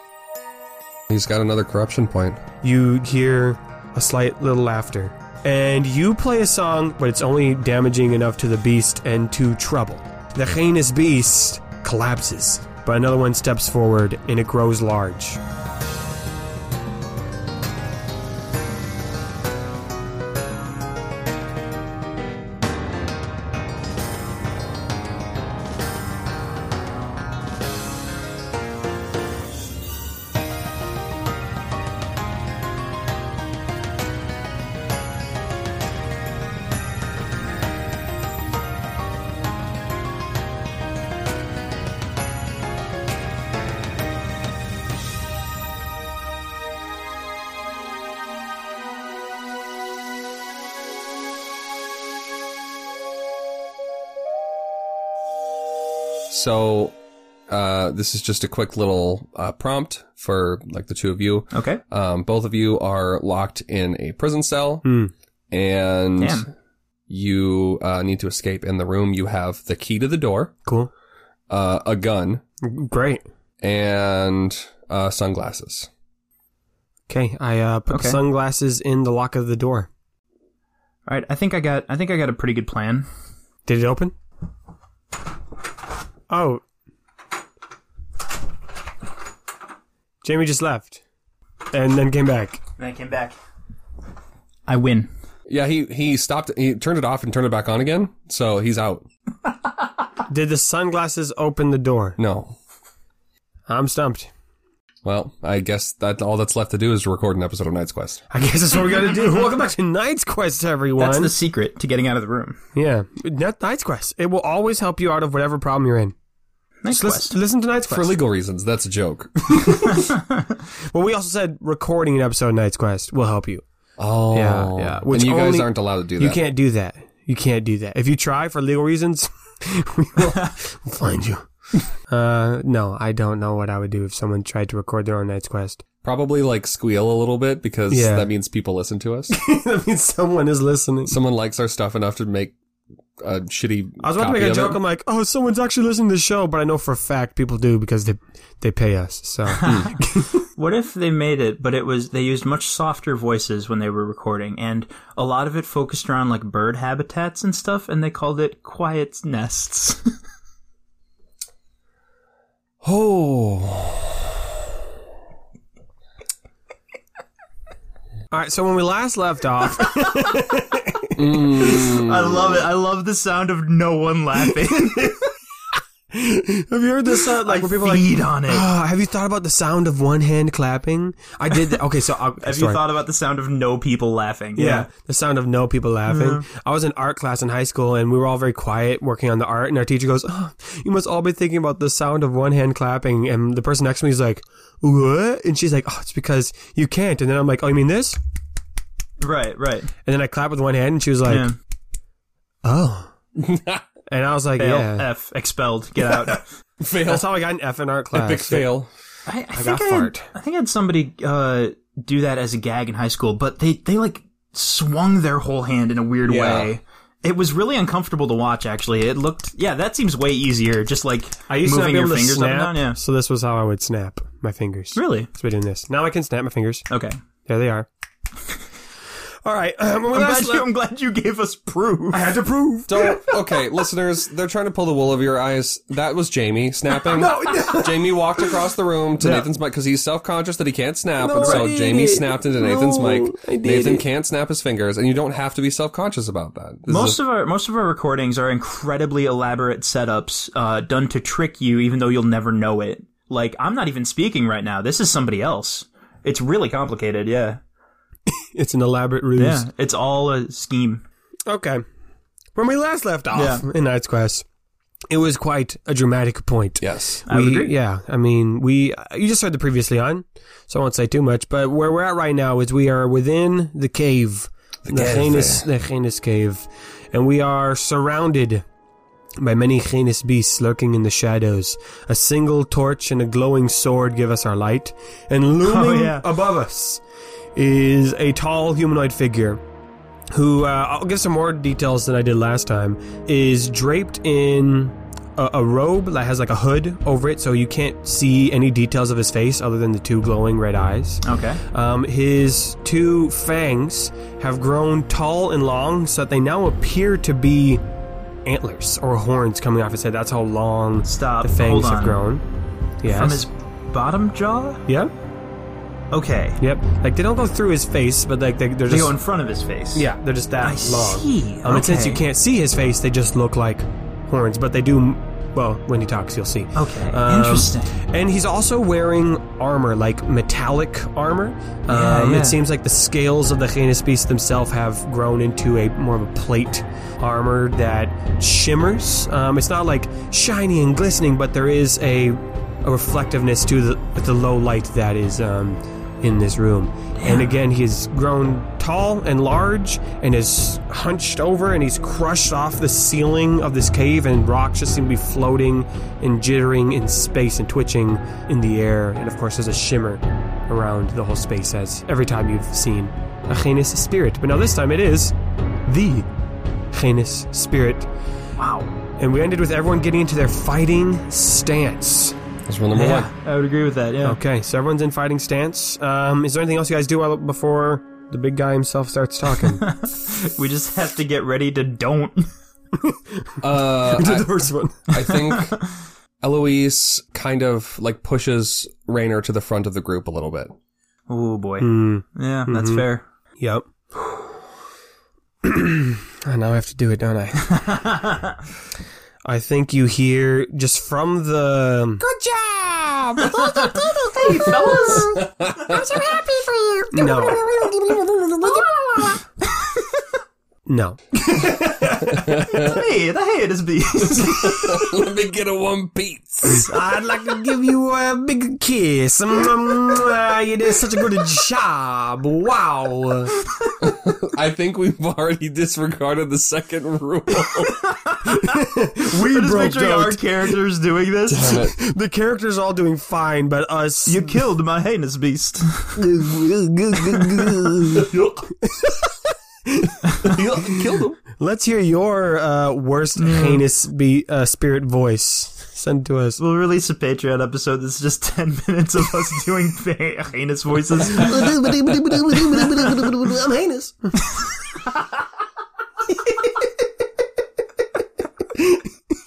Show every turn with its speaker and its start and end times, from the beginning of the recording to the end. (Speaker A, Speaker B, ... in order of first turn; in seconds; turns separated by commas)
Speaker A: 1.1-2.4, Speaker B: 2.6-15.4, Speaker A: 56.3-57.0, Speaker A: 57.5-64.9, Speaker C: 61.5-61.8, Speaker B: 64.8-65.1, Speaker A: 65.5-66.4, Speaker C: 66.2-66.5, Speaker A: 67.1-70.5, Speaker B: 70.7-70.9, Speaker A: 71.5-72.4, Speaker B: 72.6-73.2, Speaker A: 73.6-75.9, Speaker B: 77.1-79.9, Speaker C: 77.9-78.2, Speaker C: 81.1-83.1, Speaker B: 83.7-84.1, Speaker B: 86.3-86.6, Speaker B: 90.2-91.0, Speaker B: 91.7-92.6, Speaker C: 92.8-93.4, Speaker C: 94.7-95.1, Speaker A: 95.5-99.1, Speaker B: 100.3-102.2, Speaker A: 102.2-102.5, Speaker B: 103.7-104.3, Speaker A: 105.0-108.3, Speaker B: 108.3-111.3, Speaker C: 111.0-112.6, Speaker B: 112.8-116.2, Speaker C: 116.8-117.3, Speaker B: 116.9-118.2, Speaker A: 117.9-119.8, Speaker B: 119.5-120.1, Speaker B: 120.9-123.6, Speaker A: 124.0-126.4, Speaker B: 124.3-131.5, Speaker B: 132.1-135.8, Speaker A: 136.0-139.4, Speaker B: 137.9-138.3, Speaker B: 139.3-141.2, Speaker A: 141.1-142.6, Speaker A: 143.2-144.8, Speaker B: 144.0-150.4, Speaker C: 149.5-160.1, Speaker A: 162.8-164.3, Speaker B: 168.3-171.2, Speaker A: 171.2-172.6, Speaker C: 171.6-175.2, Speaker B: 176.1-182.8, Speaker C: 177.4-178.7, Speaker C: 182.4-184.9, Speaker B: 184.6-198.2, Speaker C: 186.1-186.4, Speaker C: 199.2-199.9, Speaker B: 200.1-201.5, Speaker C: 201.2-201.6, Speaker B: 202.6-203.1, Speaker A: 203.4-203.8, Speaker B: 204.1-205.1, Speaker C: 204.6-206.4, Speaker A: 206.8-207.3, Speaker B: 207.0-208.7, Speaker A: 208.1-208.9, Speaker C: 209.3-223.0, Speaker B: 209.5-210.3, Speaker A: 216.3-216.7, Speaker B: 221.5-226.8, Speaker C: 224.9-225.3, Speaker C: 226.9-227.2, Speaker B: 227.5-227.9, Speaker B: 229.4-230.7, Speaker C: 230.1-232.3, Speaker B: 232.1-233.3, Speaker A: 232.9-247.2, Speaker B: 237.1-238.5, Speaker B: 239.2-239.5, Speaker B: 241.2-244.1, Speaker C: 241.4-241.7, Speaker C: 246.9-257.6, Speaker B: 258.3-259.7, Speaker C: 259.4-261.0, Speaker B: 261.5-261.8, Speaker B: 262.6-264.4, Speaker C: 263.3-263.6, Speaker B: 265.1-278.6, Speaker A: 266.8-267.2, Speaker C: 267.3-267.7, Speaker A: 274.9-275.6, Speaker B: 279.4-287.0, Speaker C: 285.6-286.3, Speaker B: 287.6-289.6, Speaker B: 290.3-307.8, Speaker C: 301.2-301.6, Speaker B: 308.4-312.4, Speaker C: 311.1-312.2, Speaker B: 313.0-313.4, Speaker C: 313.1-314.8, Speaker B: 314.9-315.1, Speaker C: 316.1-316.6, Speaker B: 316.6-319.1, Speaker C: 318.9-320.1, Speaker B: 319.9-365.3, Speaker C: 320.6-322.2, Speaker C: 326.8-327.9, Speaker C: 331.9-332.6, Speaker C: 347.1-347.6, Speaker B: 365.9-366.3, Speaker B: 366.9-368.1, Speaker C: 368.6-368.9, Speaker B: 369.2-372.4, Speaker A: 372.7-373.3, Speaker C: 372.9-374.4, Speaker B: 374.2-379.9, Speaker C: 379.7-382.5, Speaker B: 382.9-385.1, Speaker A: 383.6-384.5, Speaker A: 385.1-385.8, Speaker C: 385.2-385.8, Speaker A: 386.4-390.7, Speaker C: 391.3-393.2, Speaker B: 391.8-393.1, Speaker B: 393.6-393.9, Speaker B: 395.6-398.0, Speaker C: 397.6-398.6, Speaker B: 399.4-402.3, Speaker A: 402.4-403.3, Speaker B: 403.3-405.4, Speaker C: 403.4-409.9, Speaker A: 404.8-406.1, Speaker B: 407.1-407.6, Speaker B: 408.6-409.4, Speaker B: 410.9-413.0, Speaker C: 411.4-415.1, Speaker A: 412.5-413.0, Speaker A: 414.2-416.9, Speaker B: 416.6-423.5, Speaker A: 424.0-428.0, Speaker C: 427.7-431.8, Speaker B: 428.5-430.4, Speaker A: 431.5-432.0, Speaker B: 431.7-434.5, Speaker C: 434.3-436.4, Speaker B: 436.2-446.6, Speaker C: 437.2-438.2, Speaker A: 438.1-438.6, Speaker A: 440.4-441.4, Speaker C: 443.4-443.8, Speaker C: 446.6-451.6, Speaker B: 451.2-454.4, Speaker B: 458.8-459.1